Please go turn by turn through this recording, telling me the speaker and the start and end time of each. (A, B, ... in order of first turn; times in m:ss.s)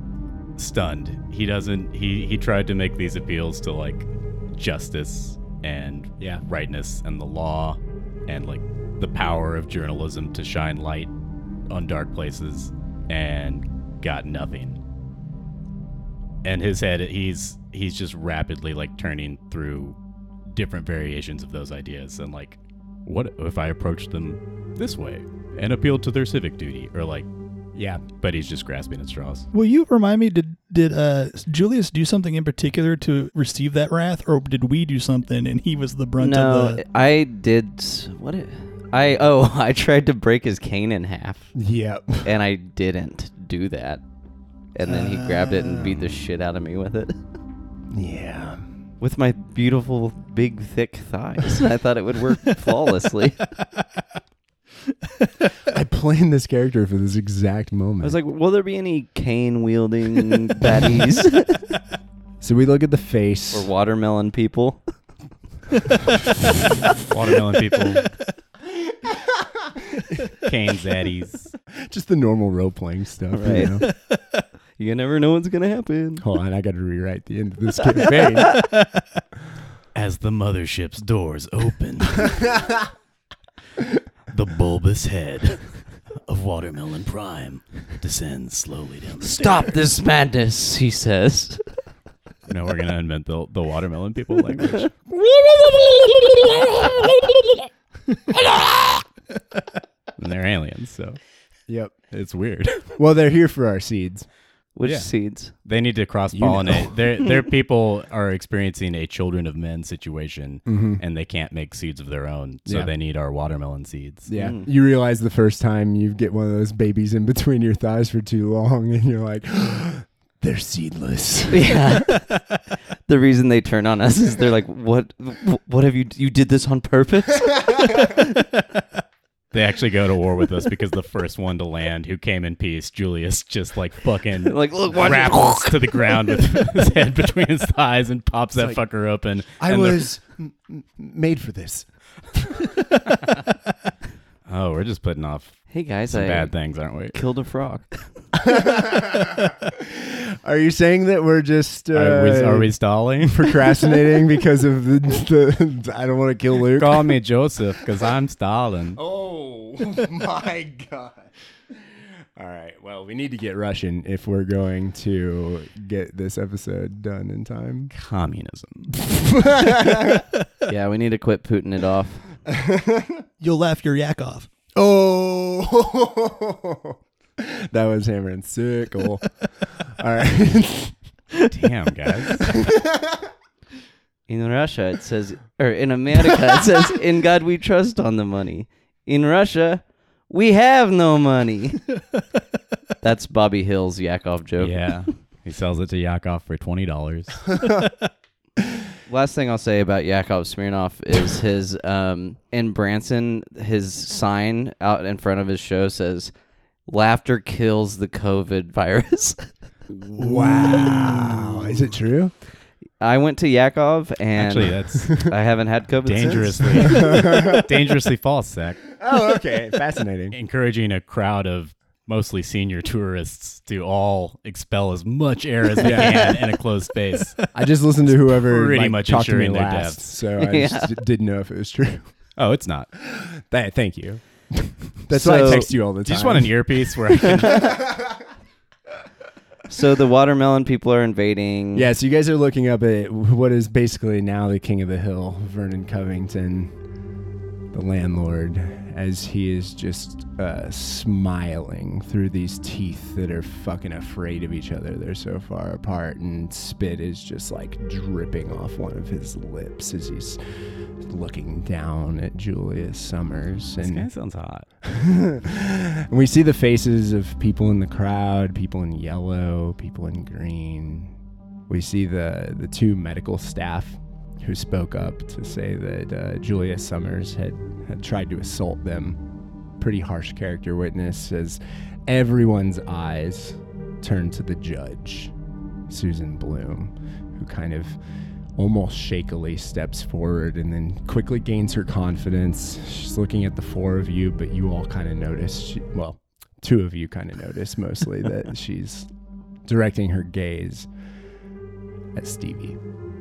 0:00.6-0:11.1 A
0:11.7-0:14.8 A
0:16.4-0:27.3 A
0:27.7-0:28.0 B
0:28.2-0:29.5 A
0:29.5-0:36.8 C
0:36.2-0:41.5 D
0:41.6-0:42.3 B
0:42.2-0:44.0 D
0:44.8-0:47.2 D
0:44.8-0:45.9 C
0:47.9-0:48.6 B
0:49.0-0:53.4 D
0:55.7-0:58.2 B
0:58.0-1:01.6 D
1:02.4-1:03.7 B
1:03.5-1:04.8 D
1:07.1-1:08.1 A
1:09.1-1:09.7 B
1:10.4-1:11.5 A
1:11.8-1:13.9 B
1:13.3-1:13.8 D
1:14.8-1:16.2 D
1:16.2-1:18.6 B
1:20.0-1:22.5 A
1:22.2-1:22.8 B
1:24.3-1:25.7 A
1:26.2-1:29.8 A
1:29.2-1:31.6 D
1:32.5-1:34.9 A
1:40.2-1:41.2 A
1:41.7-1:42.0 B
1:42.1-1:42.9 A
1:43.0-1:44.3 B
1:44.8-1:45.5 D
1:44.8-1:45.1 A
1:45.6-1:54.3 A
1:46.3-1:47.0 B
1:50.7-1:51.0 B
1:52.7-1:52.9 B
1:54.3-2:02.1 B
1:54.3-1:54.7 D
2:01.5-2:02.4 D
2:03.1-2:08.3 D
2:09.5-2:20.1 A
2:14.4-2:16.4 D
2:18.6-2:18.8 B
2:19.6-2:22.8 B
2:24.5-2:25.6 A
2:25.7-2:26.5 D
2:26.1-2:27.2 A
2:27.1-2:28.1 D
2:28.4-2:37.2 B
2:31.9-2:33.7 A
2:36.8-2:39.0 A
2:39.0-2:41.3 B
2:42.4-2:47.9 B
2:47.9-2:49.0 A
2:48.9-2:50.3 B
2:50.7-2:52.4 D
2:52.5-2:53.3 B
2:53.4-2:54.5 C
2:54.8-3:01.0 B
3:01.5-3:02.5 A
3:02.3-3:03.3 B
3:04.3-3:11.8 D
3:13.0-3:15.0 D
3:14.6-3:17.4 A
3:19.1-3:26.3 D
3:26.9-3:29.5 D
3:30.2-3:32.3 B
3:30.3-3:31.1 C
3:33.0-3:37.0 D
3:34.4-3:35.1 A
3:36.0-3:38.8 A
3:36.8-3:37.7 B
3:39.0-3:40.4 B
3:40.3-3:47.4 A
3:45.8-3:46.3 B
3:45.9-3:46.3 D
3:47.5-3:52.1 B
3:48.1-3:50.1 A
3:50.4-3:50.9 D
3:52.4-3:52.9 A
3:53.0-3:56.7 B
3:55.1-3:55.7 D
3:56.0-3:57.8 A
3:57.2-3:57.7 D
3:57.6-3:58.1 B
3:59.7-4:01.9 D
4:01.7-4:06.7 B
4:07.7-4:20.4 B
4:21.0-4:24.1 B
4:23.8-4:24.7 A
4:24.8-4:31.1 B
4:31.7-4:39.2 B
4:39.8-4:45.3 B
4:45.9-4:48.0 B
4:48.6-4:59.1 B
4:59.7-5:00.9 B
5:02.2-5:02.8 B